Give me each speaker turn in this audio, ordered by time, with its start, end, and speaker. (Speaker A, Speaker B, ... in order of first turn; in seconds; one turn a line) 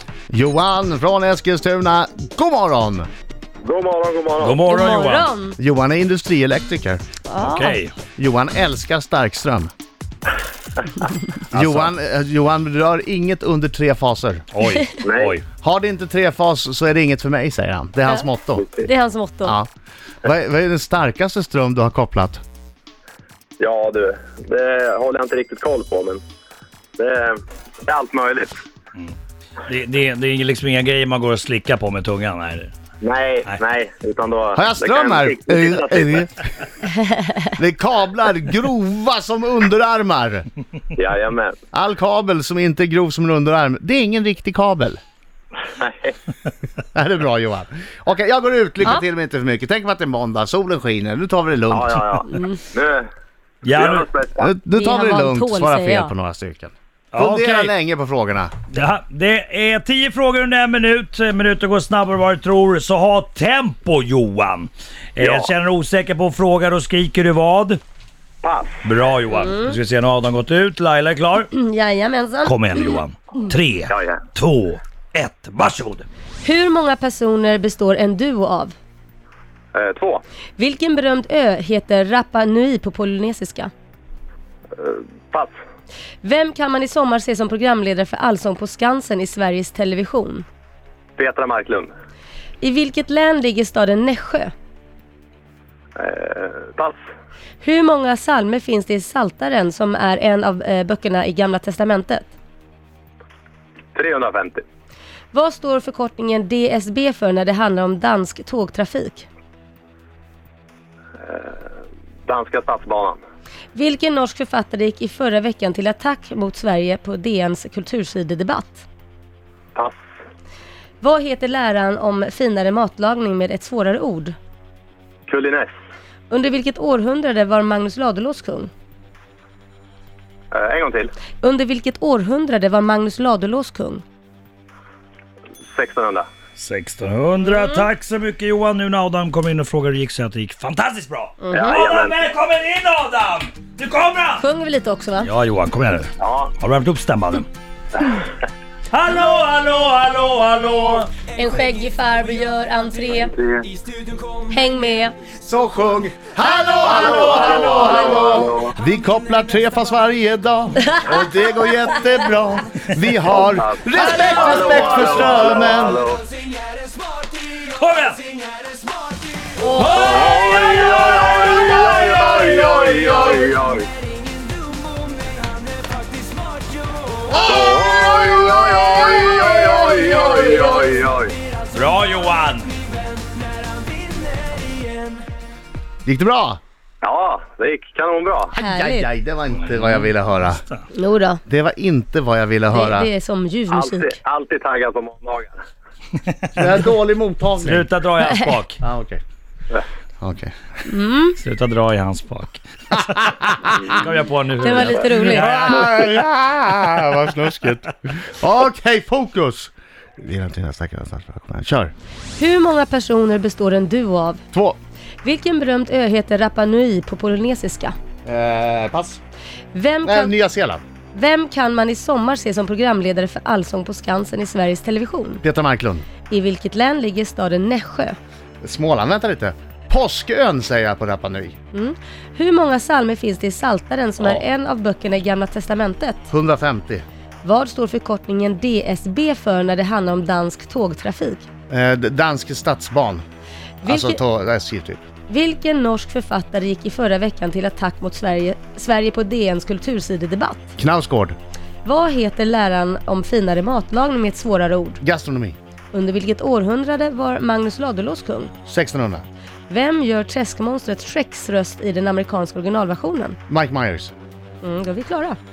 Speaker A: 0.3-3.1
Speaker B: 3.6-4.6
Speaker C: 4.4-5.3
Speaker D: 4.7-5.6
Speaker A: 5.6-7.0
Speaker D: 7.3-7.8
Speaker C: 7.4-7.9
Speaker A: 8.2-9.7
Speaker C: 11.5-11.9
Speaker A: 11.5-14.4
Speaker C: 14.5-15.4
Speaker B: 15.0-15.4
Speaker A: 15.6-18.6
Speaker B: 18.6-18.9
Speaker D: 18.8-19.6
Speaker A: 20.2-22.4
Speaker B: 23.6-26.2
Speaker B: 27.0-28.6
Speaker C: 28.9-32.7
Speaker B: 33.0-36.2
Speaker A: 34.5-36.4
Speaker A: 37.4-40.5
Speaker B: 40.9-41.6
Speaker A: 41.7-45.0
Speaker B: 45.6-46.1
Speaker A: 46.9-52.2
Speaker B: 51.7-53.1
Speaker D: 52.3-52.6
Speaker C: 53.6-54.1
Speaker B: 53.6-54.5
Speaker A: 54.4-58.5
Speaker D: 54.7-56.1
Speaker C: 57.1-57.7
Speaker C: 58.7-67.8
Speaker B: 65.2-65.5
Speaker B: 68.4-68.8
Speaker C: 68.8-71.5
Speaker D: 69.3-69.7
Speaker D: 71.5-72.5
Speaker C: 72.4-76.1
Speaker B: 73.9-74.2
Speaker D: 76.4-78.7
Speaker B: 79.7-80.2
Speaker D: 80.6-83.7
Speaker B: 84.8-85.5
Speaker D: 86.2-90.5
Speaker B: 91.2-91.9
Speaker D: 92.6-94.5
Speaker B: 96.0-97.0
Speaker D: 97.6-102.3
Speaker B: 103.9-104.6
Speaker D: 105.3-109.3
Speaker B: 111.2-111.6
Speaker B: 112.3-113.2
Speaker D: 113.7-118.8
Speaker D: 121.0-124.4
Speaker B: 125.3-125.7
Speaker D: 126.3-128.7
Speaker B: 130.5-131.1
Speaker D: 131.4-134.0
Speaker B: 135.7-136.3
Speaker C: 136.6-144.4
Speaker D: 137.5-137.8
Speaker D: 141.4-141.7
Speaker B: 141.5-142.3
Speaker D: 144.4-145.3
Speaker C: 145.2-147.5
Speaker B: 146.2-146.5
Speaker C: 148.9-151.1
Speaker D: 151.3-153.3
Speaker B: 153.3-153.7
Speaker D: 154.5-155.1
Speaker A: 155.4-166.0
Speaker D: 156.5-157.9
Speaker B: 156.8-158.8
Speaker D: 160.8-161.1
Speaker B: 163.3-166.2
Speaker C: 164.1-165.3
Speaker C: 167.5-168.2
Speaker D: 169.6-170.0
Speaker C: 169.7-173.1
Speaker B: 169.8-173.9
Speaker A: 177.3-178.6
Speaker B: 177.4-181.3
Speaker D: 180.1-180.8
Speaker C: 181.7-182.8
Speaker A: 186.0-186.6
Speaker B: 187.0-188.5
Speaker D: 188.5-189.1
Speaker A: 188.6-190.6
Speaker C: 189.5-190.1
Speaker D: 190.9-191.4
Speaker A: 191.4-193.1
Speaker D: 192.7-194.2
Speaker B: 193.7-195.5
Speaker C: 196.3-196.6
Speaker A: 196.5-197.9
Speaker C: 197.6-198.8
Speaker A: 198.8-199.2
Speaker A: 200.2-200.5
Speaker D: 200.8-201.4
Speaker C: 201.4-206.1
Speaker A: 203.2-203.9
Speaker D: 204.6-205.5
Speaker A: 205.3-211.9
Speaker D: 212.4-214.4
Speaker D: 215.2-217.9
Speaker A: 218.2-219.2
Speaker D: 219.7-220.3
Speaker A: 220.0-220.8
Speaker D: 221.1-225.4
Speaker A: 225.4-226.1
Speaker D: 226.3-228.2
Speaker A: 228.6-231.6
Speaker D: 231.7-236.3
Speaker A: 236.3-237.0
Speaker D: 237.4-241.4
Speaker A: 241.7-243.2
Speaker D: 243.8-244.2
Speaker A: 243.8-245.0
Speaker D: 245.3-250.7
Speaker A: 250.8-251.3
Speaker D: 251.8-255.0
Speaker A: 255.0-255.6
Speaker D: 255.9-258.5
Speaker A: 258.6-259.2
Speaker D: 259.7-263.4
Speaker A: 263.5-264.1
Speaker D: 264.6-265.4